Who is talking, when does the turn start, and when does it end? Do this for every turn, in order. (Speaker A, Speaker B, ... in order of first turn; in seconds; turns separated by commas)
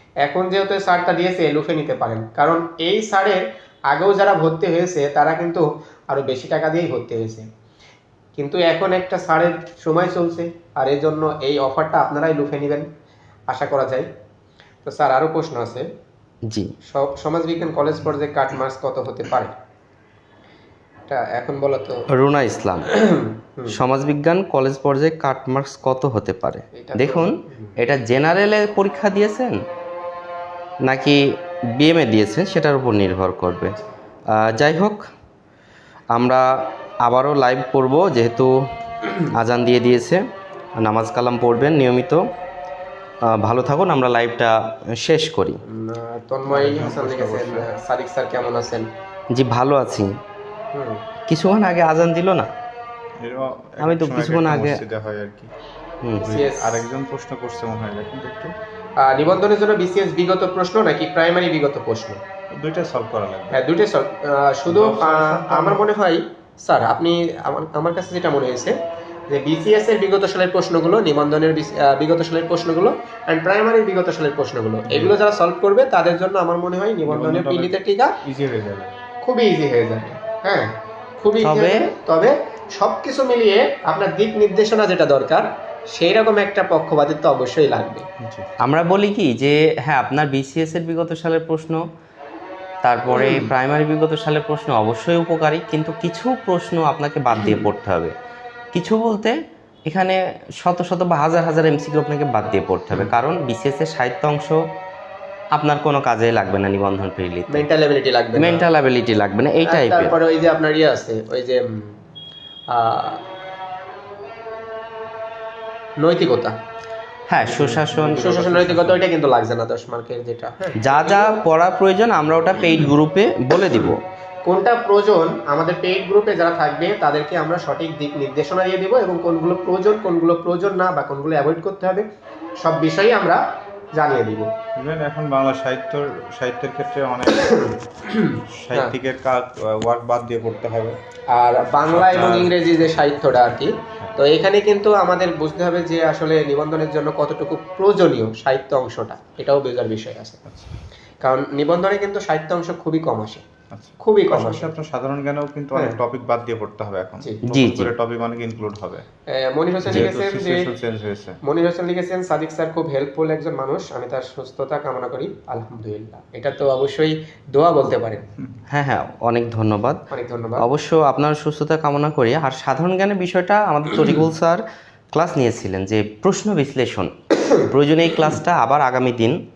Speaker A: 0.2-7.5, Speaker A: 8.4-12.9, Speaker A: 13.5-14.1, Speaker A: 14.8-15.9, Speaker B: 16.5-16.7, Speaker A: 16.9-19.5, Speaker A: 21.1-22.0, Speaker B: 22.1-22.9, Speaker A: 22.9-23.8, Speaker B: 23.7-29.6, Speaker A: 26.7-27.8, Speaker B: 30.8-33.8, Speaker B: 34.3-35.1, Speaker B: 36.1-40.2, Speaker B: 40.8-42.2, Speaker B: 43.2-45.6, Speaker A: 45.6-48.9, Speaker C: 46.5-47.7, Speaker B: 49.3-50.2, Speaker A: 50.7-51.0, Speaker B: 51.3-52.5, Speaker C: 53.2-55.5, Speaker B: 53.8-54.8, Speaker B: 56.0-56.4, Speaker A: 56.2-56.8, Speaker C: 56.2-58.5, Speaker A: 59.0-62.2, Speaker C: 62.5-63.6, Speaker A: 63.5-68.8, Speaker C: 64.7-65.9, Speaker A: 69.3-78.2, Speaker C: 74.9-75.2, Speaker C: 77.1-78.9, Speaker A: 79.2-88.1, Speaker B: 81.4-81.8, Speaker C: 88.2-88.5, Speaker B: 88.6-91.8, Speaker B: 92.8-98.1, Speaker A: 93.1-93.5, Speaker B: 98.7-104.6, Speaker B: 105.5-107.7, Speaker A: 107.5-108.6, Speaker B: 108.3-110.2, Speaker A: 109.7-111.9, Speaker A: 112.7-113.2, Speaker A: 116.0-116.6, Speaker B: 117.3-118.6, Speaker C: 117.5-119.0, Speaker A: 118.0-121.4, Speaker B: 120.8-124.0, Speaker A: 124.5-132.1, Speaker A: 132.6-133.4, Speaker A: 133.9-134.5, Speaker C: 134.8-137.7, Speaker A: 137.3-138.9, Speaker C: 138.6-141.0, Speaker A: 141.3-150.4, Speaker C: 141.9-142.7, Speaker A: 151.2-153.4, Speaker C: 153.7-159.1, Speaker A: 154.0-154.7, Speaker B: 157.5-157.9, Speaker A: 159.3-160.7, Speaker C: 159.8-161.4, Speaker A: 161.4-168.2, Speaker B: 168.7-170.0, Speaker A: 170.1-170.7, Speaker B: 170.6-179.4